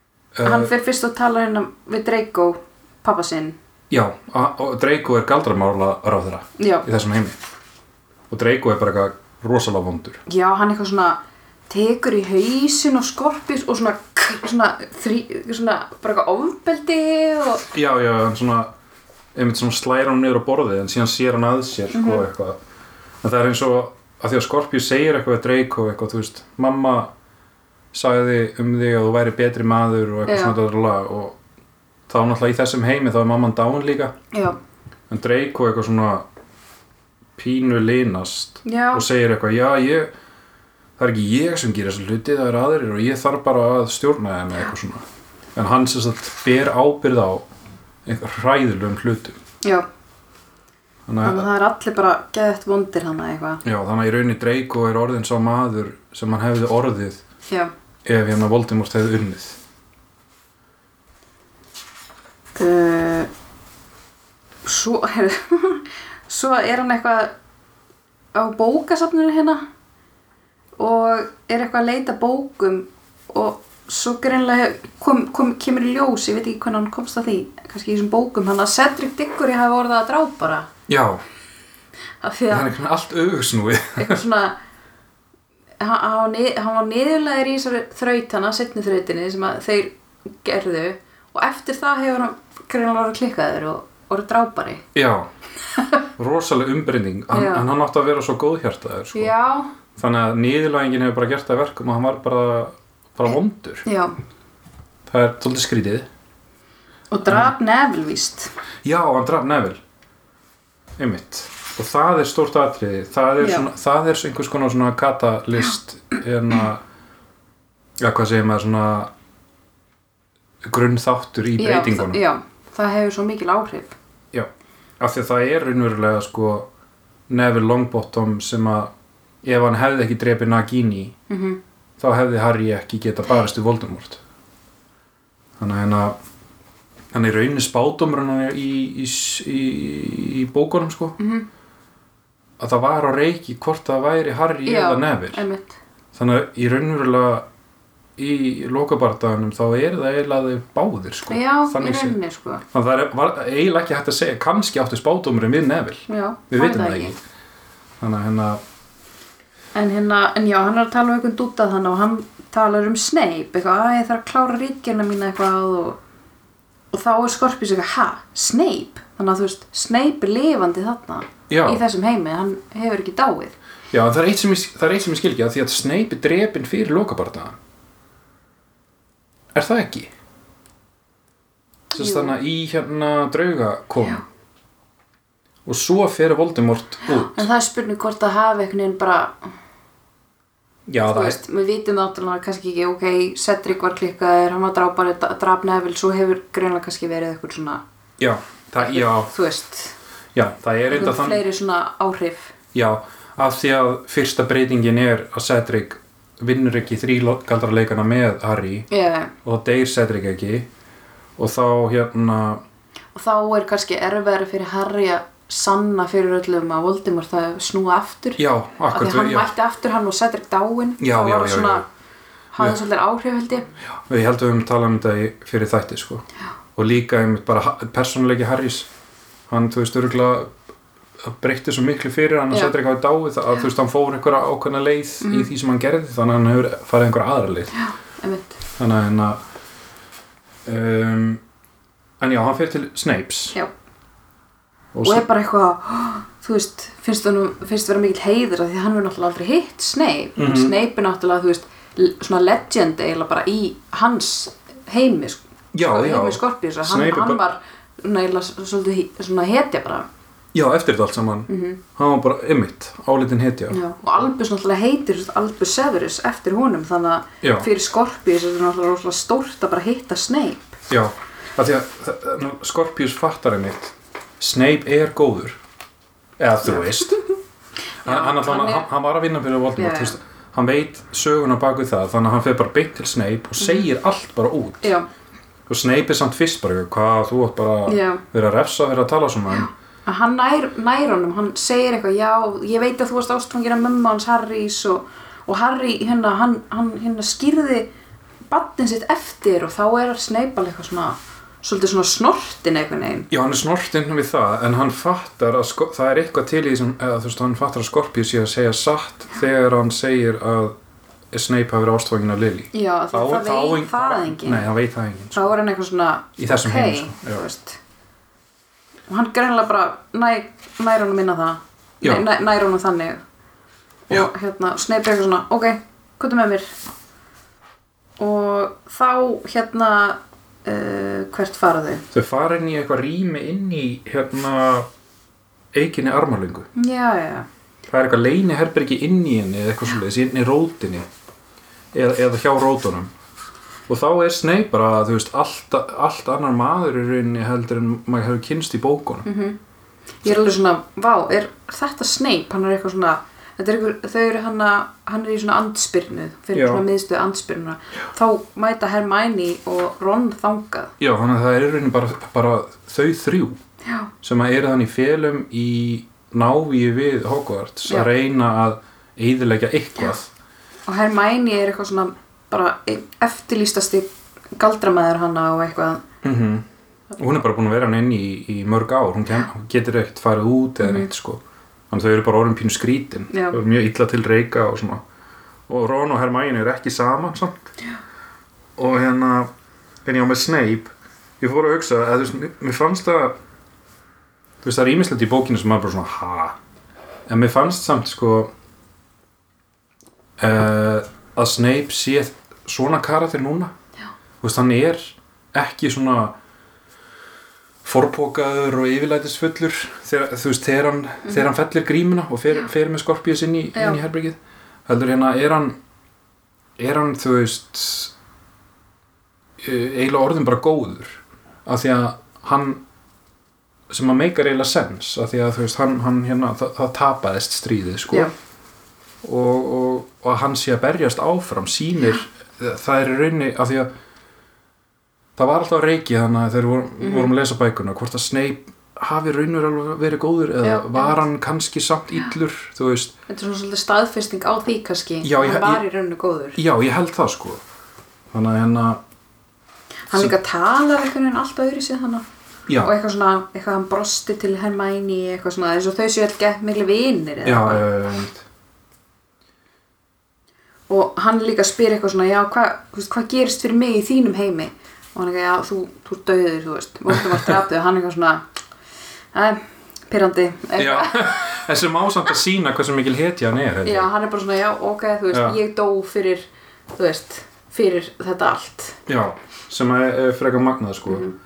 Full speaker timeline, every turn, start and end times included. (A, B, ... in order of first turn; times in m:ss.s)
0:00.3-0:00.7 A
0:00.4-0:03.6 B
0:03.9-0:07.4 A
0:06.6-0:06.9 B
0:08.3-0:10.2 A
0:10.3-0:17.6 B
0:17.7-0:18.7 A
0:19.3-0:22.6 A
0:21.9-0:22.2 B
0:23.2-0:27.1 A
0:27.9-0:31.4 A
0:30.3-0:30.6 B
0:32.1-0:34.1 A
0:35.1-0:36.2 A
0:37.4-0:40.1 A
0:38.6-0:39.0 B
0:41.0-0:45.0 A
0:45.6-0:47.4 A
0:48.1-0:49.4 A
0:51.1-0:51.5 A
0:51.2-0:53.6 B
0:53.6-0:57.2 A
0:58.0-0:59.6 A
1:02.6-1:03.3 B
1:04.6-1:07.3 B
1:08.3-1:09.6 B
1:10.8-1:20.7 B
1:20.9-1:21.2 A
1:22.2-1:22.7 B
1:22.5-1:24.2 A
1:24.0-1:24.6 B
1:25.8-1:34.8 B
1:34.9-1:35.3 A
1:36.2-1:39.3 A
1:37.3-1:37.7 B
1:39.1-1:39.7 B
1:40.0-1:43.8 A
1:43.8-1:44.1 B
1:45.1-1:46.1 A
1:47.1-1:48.5 B
1:48.8-1:49.8 A
1:51.0-1:56.8 A
1:53.4-1:53.7 B
1:58.0-1:59.1 A
2:00.6-2:02.2 A
2:01.6-2:03.9 B
2:05.0-2:06.7 A
2:07.3-2:08.9 A
2:09.4-2:11.2 A
2:11.3-2:11.6 B
2:12.0-2:14.2 A
2:15.6-2:16.1 A
2:17.1-2:21.2 A
2:21.2-2:21.4 B
2:22.6-2:25.4 A
2:24.6-2:25.8 B
2:26.1-2:27.4 A
2:28.2-2:32.2 A
2:31.3-2:32.6 B
2:32.7-2:37.2 A
2:36.1-2:37.1 B
2:38.0-2:38.6 A
2:39.8-2:46.0 B
2:46.9-2:53.6 B
2:51.5-2:51.8 A
2:53.9-2:57.6 A
2:59.5-3:00.1 A
3:01.9-3:04.2 A
3:02.0-3:02.4 B
3:05.6-3:07.4 A
3:07.1-3:09.3 B
3:10.9-3:11.4 A
3:11.1-3:17.8 B
3:18.2-3:19.3 A
3:18.8-3:19.9 B
3:20.3-3:21.4 A
3:20.9-3:22.5 B
3:22.7-3:28.9 A
3:28.9-3:29.3 B
3:29.4-3:30.7 A
3:31.4-3:32.6 A
3:33.1-3:41.8 B
3:38.4-3:39.5 A
3:41.0-3:41.8 A
3:42.5-3:43.7 B
3:44.0-3:46.2 A
3:46.8-3:48.9 A
3:49.5-3:50.5 A
3:51.2-3:57.7 A
3:55.2-3:55.5 B
3:57.7-3:58.6 B
3:58.8-3:59.4 A
4:00.7-4:01.4 A
4:02.2-4:03.6 A
4:04.9-4:05.2 A
4:05.0-4:20.1 B
4:10.4-4:10.8 A
4:15.7-4:17.4 A
4:20.5-4:23.8 A
4:21.5-4:21.8 B
4:23.7-4:30.7 B
4:27.4-4:27.7 A
4:30.9-4:35.6 A
4:36.4-4:37.2 A
4:38.0-4:38.9 B
4:38.0-4:44.9 A
4:39.8-4:40.2 B
4:43.6-4:43.9 B
4:45.7-4:49.7 A
4:47.8-4:48.2 B
4:49.6-4:57.9 B
4:58.5-5:03.3 B
5:03.3-5:10.7 A
5:11.3-5:15.6 A
5:12.7-5:14.7 B
5:15.3-5:17.8 B
5:16.4-5:17.4 A
5:19.1-5:23.2 B
5:24.1-5:26.7 B
5:28.2-5:32.0 B
5:32.1-5:34.9 A
5:35.7-5:36.7 A
5:36.7-5:37.4 B
5:37.9-5:41.1 A
5:41.9-5:43.1 A
5:43.9-5:49.3 A
5:49.2-5:49.6 B
5:50.2-6:00.9 B
5:56.5-5:56.8 A
6:01.0-6:03.6 A
6:03.8-6:04.1 B
6:04.2-6:10.3 A
6:10.9-6:16.0 B
6:16.2-6:16.6 A
6:17.2-6:25.0 A
6:20.8-6:21.1 B
6:23.3-6:23.6 B
6:25.7-6:27.7 A
6:28.8-6:29.5 A
6:30.0-6:33.3 A
6:34.6-6:36.6 A
6:37.3-6:38.5 A
6:40.4-6:43.7 A
6:44.4-6:46.4 A
6:47.8-6:55.8 A
6:53.7-6:54.0 B
6:56.8-6:58.1 A
6:59.6-7:02.8 A
7:03.9-7:08.3 A
7:09.2-7:13.9 A
7:15.4-7:23.2 A
7:17.0-7:17.3 B
7:20.6-7:21.2 B
7:23.3-7:26.6 B
7:25.2-7:25.8 A
7:26.6-7:27.6 A
7:28.3-7:29.0 A
7:30.1-7:32.2 B
7:32.8-7:37.8 B
7:37.4-7:38.4 A
7:40.9-7:48.4 B
7:49.3-7:51.5 B
7:50.7-7:54.1 A
7:53.8-7:59.0 B
7:55.3-7:55.6 A
7:59.1-8:01.2 A
8:01.1-8:01.3 B